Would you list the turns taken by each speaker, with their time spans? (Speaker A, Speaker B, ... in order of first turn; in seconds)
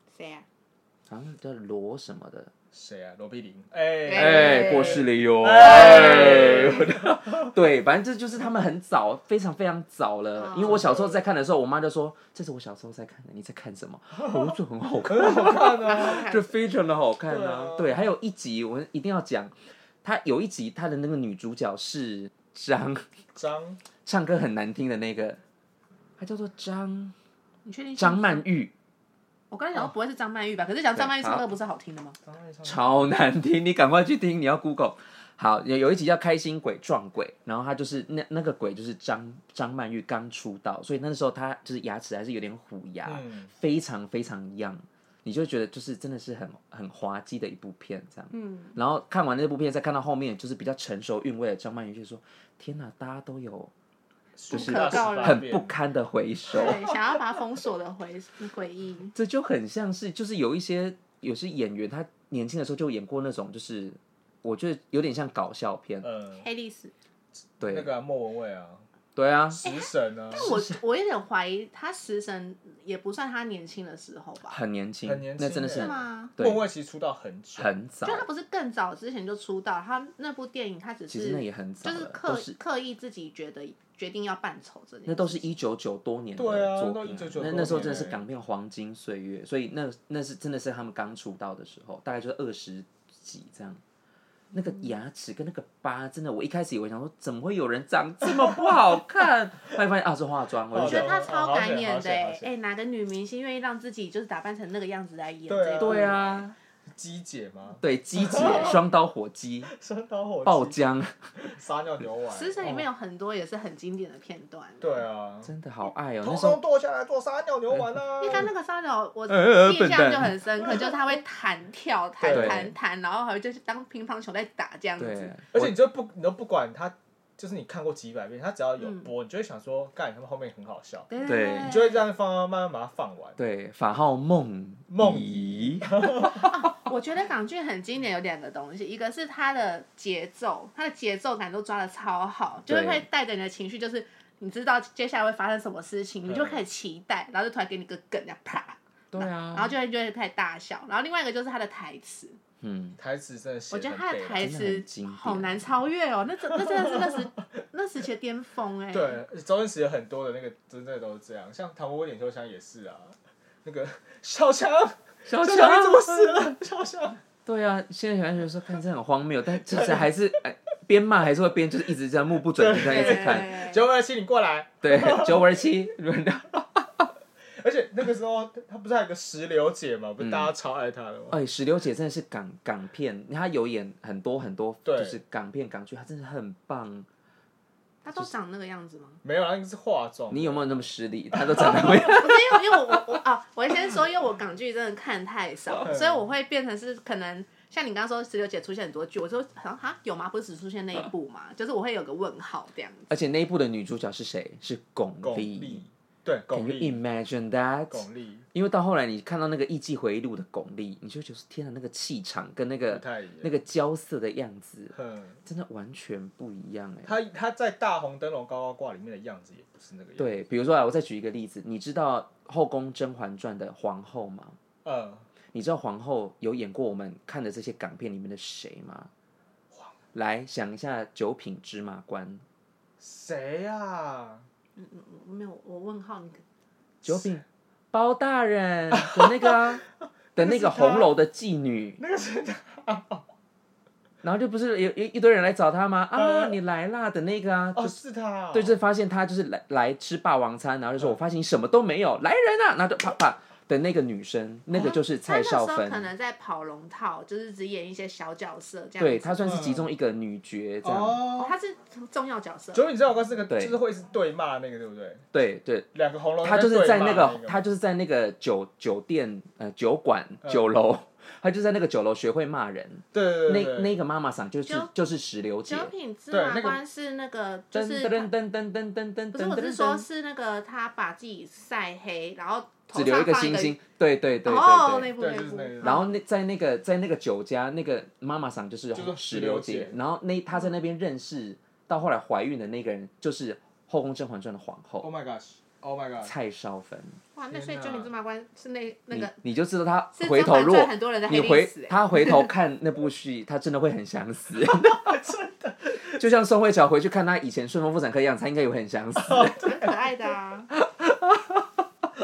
Speaker A: 0.1-0.5, 4.0-5.0, 5.7-6.7, 10.4-10.7, 15.8-16.4, 27.6-28.4, 29.5-32.1, 48.3-48.8, 54.5-55.4, 56.5-59.1, 66.4-66.9, 69.6-74.5, 75.8-76.3, 78.0-85.5, 100.8-106.3, 108.3-108.7, 112.3-115.0, 118.2-125.3, 131.1-132.0, 136.3-152.4, 153.7-159.2, 172.8-173.8, 188.0-189.2, 192.0-203.1, 234.8-236.4, 254.7-259.6, 261.4-262.8, 275.7-278.3, 279.3-283.8, 284.4-286.1, 297.4-299.4, 300.1-302.5, 309.6-310.7
Speaker B: 1.1-2.5, 4.1-23.1, 24.0-25.4, 26.2-27.1, 28.0-28.7, 30.9-31.4, 32.6-53.7, 54.5-56.8, 59.1-66.1, 67.6-67.9, 69.2-69.6, 70.3-70.8, 74.5-76.7, 77.5-78.3, 81.1-82.5, 85.0-93.8, 94.5-101.1, 105.8-106.5, 107.8-109.7, 110.4-111.1, 115.4-116.6, 119.3-120.4, 122.3-122.7, 125.0-125.8, 131.2-131.8, 133.4-136.2, 142.7-143.0, 149.1-149.7, 152.6-153.0, 154.4-155.6, 165.3-166.5, 167.4-173.6, 174.8-177.1, 180.2-180.5, 181.3-187.1, 190.3-193.0, 203.1-205.8, 206.5-214.9, 215.4-217.2, 220.2-224.6, 225.5-229.1, 230.1-232.4, 237.0-239.8, 240.3-242.0, 244.2-248.0, 248.5-256.1, 259.0-261.2, 263.5-263.8, 265.3-265.9, 266.4-275.9, 277.7-280.1, 282.9-285.1, 285.8-295.1, 296.2-297.2, 299.1-305.3, 306.0-309.7, 310.8-311.7
Speaker C: 2.7-7.5, 10.5-11.2, 14.2-14.5, 15.1-16.3, 17.3-17.9, 23.3-23.8, 32.2-33.1, 43.0-43.5, 54.4-55.8, 56.5-57.0, 66.0-66.4, 67.6-68.8, 69.6-70.5, 75.0-77.7, 86.4-88.2, 100.7-102.5, 105.5-106.4, 106.9-108.8, 109.7-110.8, 111.4-112.8, 114.8-115.5, 116.2-118.5, 122.2-122.7, 125.5-131.1, 131.6-133.4, 134.9-136.5, 146.3-146.6, 153.0-154.5, 156.7-157.2, 158.9-167.2, 169.7-170.0, 172.5-175.6, 177.6-181.4, 184.8-185.2, 189.2-190.8, 191.3-192.0, 205.2-207.0, 207.9-208.4, 212.9-213.5, 214.9-215.4, 217.1-220.4, 224.8-225.2, 233.0-234.4, 239.0-239.6, 240.3-241.1, 242.0-243.2, 246.2-246.5, 247.8-248.8, 259.4-259.9, 260.8-261.5, 262.7-265.3, 265.9-267.6, 273.1-273.9, 276.3-276.8, 285.2-286.0, 288.9-289.9, 295.0-296.3, 297.5-298.1, 304.8-306.1, 309.2-309.9